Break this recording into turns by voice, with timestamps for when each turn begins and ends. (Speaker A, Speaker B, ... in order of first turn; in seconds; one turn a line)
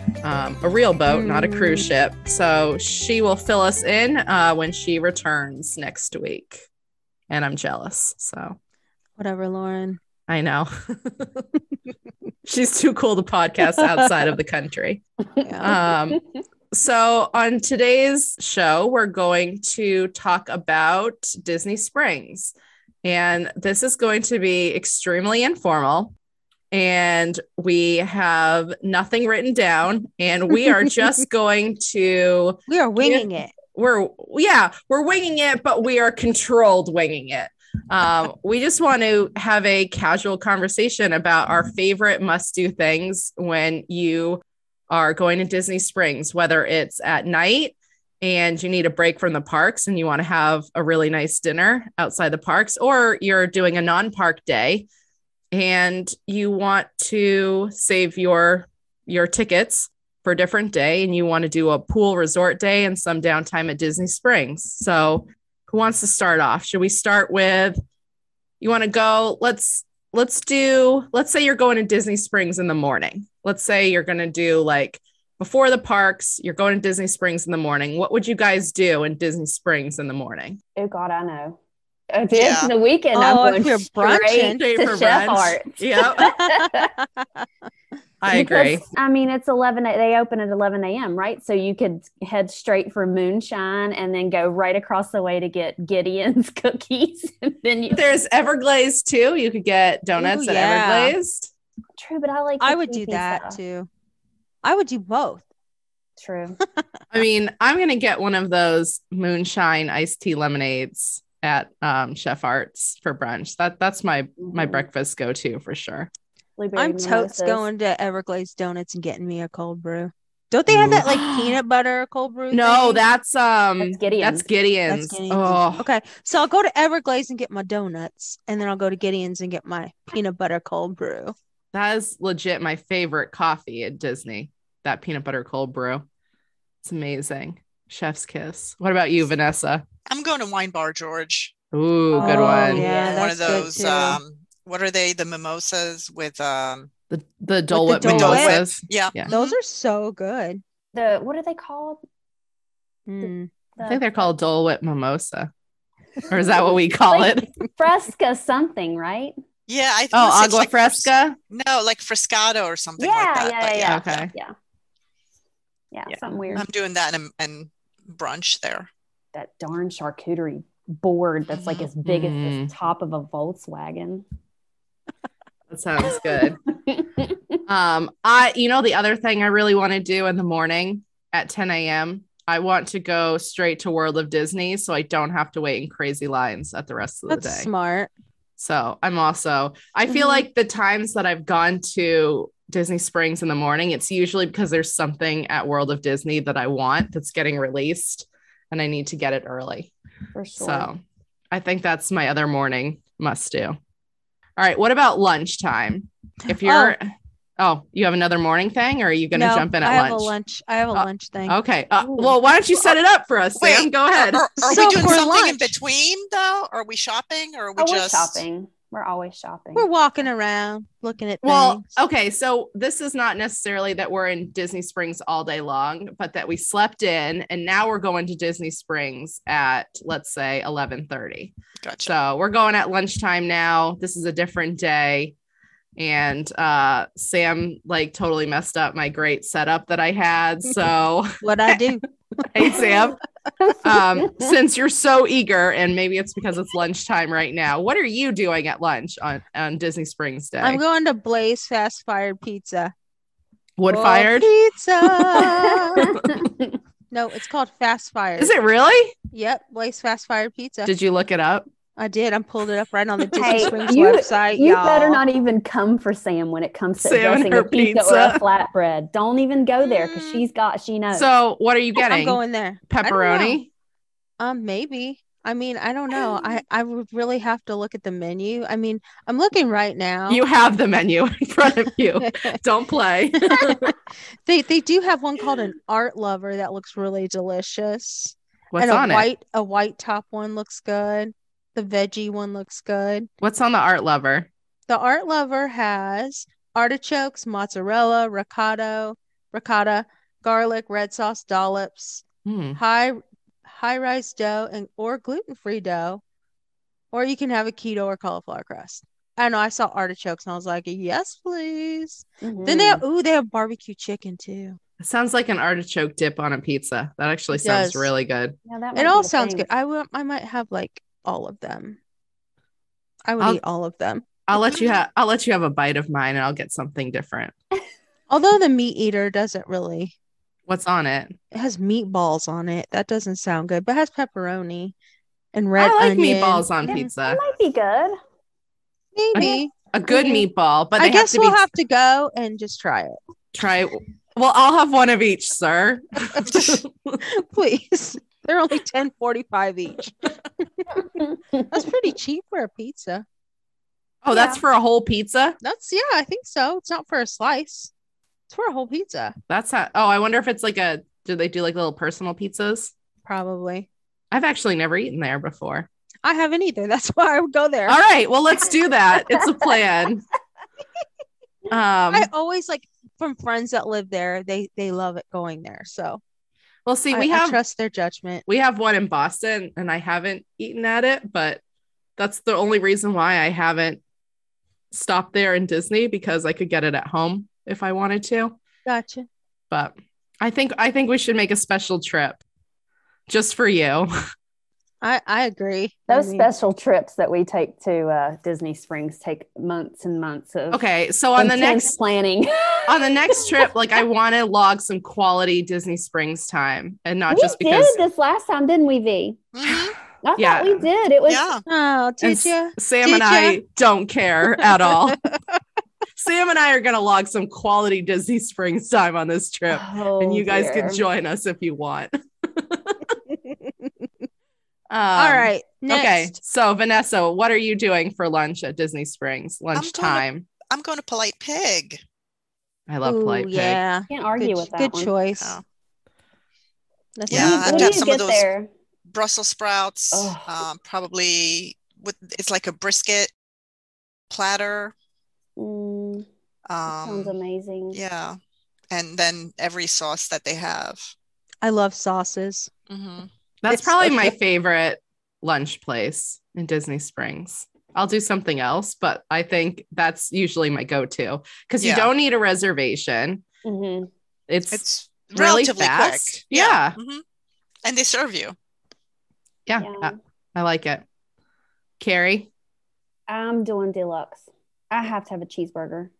Speaker A: 0.2-6.6
Speaker B: 1.1-1.9
Speaker A: 7.3-8.6
Speaker B: 9.2-10.0
Speaker A: 10.3-11.4
Speaker A: 12.4-15.0
Speaker B: 13.8-14.1
Speaker B: 15.4-15.8
Speaker A: 15.6-26.1
Speaker A: 26.7-54.9
Speaker B: 32.7-33.5
Speaker A: 55.5-67.8
Speaker A: 68.6-80.6
Speaker C: 80.8-81.6
Speaker C: 82.1-86.9
Speaker D: 82.3-82.7
Speaker B: 83.1-84.6
Speaker A: 84.5-86.4
Speaker B: 86.2-87.5
Speaker A: 88.2-88.8
Speaker C: 88.3-98.0
Speaker A: 97.9-101.5
Speaker B: 100.2-101.1
Speaker C: 102.0-103.6
Speaker B: 102.6-103.9
Speaker B: 104.6-105.4
Speaker C: 106.2-106.6
Speaker A: 107.1-116.1
Speaker C: 114.4-114.8
Speaker C: 116.6-117.6
Speaker B: 116.8-123.0
Speaker A: 120.7-121.6
Speaker A: 122.5-125.8
Speaker C: 123.8-124.4
Speaker B: 124.9-131.3
Speaker A: 131.7-136.0
Speaker A: 136.8-139.8
Speaker D: 140.1-141.5
Speaker A: 141.7-142.8
Speaker B: 142.1-144.2
Speaker C: 142.2-143.6
Speaker D: 142.4-146.9
Speaker A: 147.1-149.3
Speaker B: 147.7-148.6
Speaker D: 148.1-149.6
Speaker B: 149.3-150.6
Speaker C: 150.9-152.0
Speaker B: 153.1-153.5
Speaker C: 153.2-154.3
Speaker A: 153.8-155.5
Speaker A: 156.3-157.5
Speaker C: 156.3-159.3
Speaker D: 159.7-164.3
Speaker A: 160.1-161.4
Speaker C: 163.0-164.5
Speaker A: 163.8-164.3
Speaker C: 165.9-166.6
Speaker D: 166.1-168.9
Speaker C: 169.3-174.2
Speaker D: 171.5-171.9
Speaker A: 172.0-172.7
Speaker A: 175.7-176.6
Speaker C: 176.9-177.2
Speaker A: 177.7-187.7
Speaker B: 187.3-188.1
Speaker A: 188.6-199.9
Speaker C: 190.1-190.4
Speaker C: 200.3-200.9
Speaker A: 200.6-201.0
Speaker A: 201.5-203.8
Speaker A: 204.6-210.3
Speaker B: 206.5-206.9
Speaker B: 209.3-211.6
Speaker A: 210.9-215.2
Speaker C: 212.0-212.3
Speaker D: 213.6-218.4
Speaker B: 214.6-215.8
Speaker C: 217.8-219.9
Speaker B: 219.8-221.8
Speaker A: 221.4-231.5
Speaker D: 231.8-232.1
Speaker A: 232.0-235.3
Speaker A: 236.0-241.8
Speaker B: 241.4-242.0
Speaker A: 242.3-243.2
Speaker C: 243.6-244.5
Speaker A: 243.8-250.8
Speaker B: 250.6-252.9
Speaker A: 253.8-256.3
Speaker B: 253.9-256.1
Speaker C: 255.8-256.7
Speaker B: 257.1-258.5
Speaker A: 258.4-259.1
Speaker B: 259.3-260.9
Speaker A: 260.8-261.6
Speaker B: 262.0-265.2
Speaker C: 263.3-271.3
Speaker A: 267.0-268.4
Speaker B: 269.8-270.5
Speaker A: 271.1-273.7
Speaker B: 271.9-273.6
Speaker B: 274.4-280.4
Speaker A: 280.3-283.9
Speaker B: 282.2-282.6
Speaker B: 283.4-283.9
Speaker B: 284.4-293.3
Speaker A: 288.7-289.3
Speaker A: 293.4-294.5
Speaker B: 294.9-302.2
Speaker A: 302.4-302.8
Speaker B: 302.8-306.2
Speaker B: 307.1-314.8
Speaker C: 312.4-313.0
Speaker A: 315.0-318.6
Speaker B: 317.6-318.1
Speaker C: 318.7-319.7
Speaker B: 318.9-322.0
Speaker B: 323.2-324.2
Speaker A: 324.5-327.5
Speaker B: 328.3-330.1
Speaker A: 330.7-331.4
Speaker B: 331.5-334.9
Speaker B: 335.5-336.7
Speaker A: 335.8-337.4
Speaker C: 336.9-338.2
Speaker B: 339.1-340.4
Speaker A: 339.3-341.6
Speaker B: 341.0-343.2
Speaker A: 343.5-347.2
Speaker D: 346.4-346.8
Speaker B: 347.2-350.9
Speaker B: 351.7-353.2
Speaker A: 354.2-355.6
Speaker C: 354.3-354.6
Speaker B: 355.6-357.9
Speaker B: 358.5-359.3
Speaker A: 359.5-362.9
Speaker B: 363.2-363.9
Speaker A: 364.3-365.9
Speaker B: 366.2-368.0
Speaker A: 367.9-370.2
Speaker A: 371.7-372.3
Speaker B: 372.1-376.2
Speaker A: 376.8-377.6
Speaker B: 377.1-378.4
Speaker A: 378.5-381.6
Speaker A: 382.2-384.0
Speaker A: 384.9-388.6
Speaker B: 388.9-389.3
Speaker A: 389.7-392.4
Speaker A: 393.3-394.1
Speaker B: 395.0-396.5
Speaker C: 396.1-400.8
Speaker A: 400.7-402.0
Speaker C: 401.4-403.5
Speaker A: 402.9-408.0
Speaker C: 407.3-409.4
Speaker D: 409.5-410.0
Speaker C: 410.2-411.5
Speaker A: 410.4-410.9
Speaker D: 411.3-411.6
Speaker B: 411.7-413.6
Speaker A: 412.2-415.2
Speaker B: 414.5-415.6
Speaker A: 416.1-423.1
Speaker C: 419.7-421.0
Speaker B: 423.4-423.9
Speaker A: 424.9-430.5
Speaker B: 425.1-426.4
Speaker D: 429.7-432.0
Speaker A: 432.9-433.8
Speaker B: 433.0-435.6
Speaker C: 434.1-435.1
Speaker D: 435.4-435.6
Speaker B: 437.2-438.0
Speaker D: 437.3-438.5
Speaker C: 437.3-438.7
Speaker D: 439.1-443.3
Speaker C: 440.1-440.6
Speaker D: 444.3-444.9
Speaker C: 445.6-446.3
Speaker D: 446.7-447.3
Speaker C: 446.9-448.0
Speaker D: 447.9-448.4
Speaker D: 448.9-451.1
Speaker B: 451.6-452.7
Speaker D: 452.9-453.3
Speaker A: 453.6-463.4
Speaker B: 453.7-454.4
Speaker D: 461.8-462.1
Speaker C: 463.6-464.1
Speaker A: 464.5-466.9
Speaker D: 464.7-467.2
Speaker D: 467.8-468.6
Speaker A: 469.7-471.0
Speaker C: 469.8-470.1
Speaker A: 472.0-472.5
Speaker C: 473.3-476.1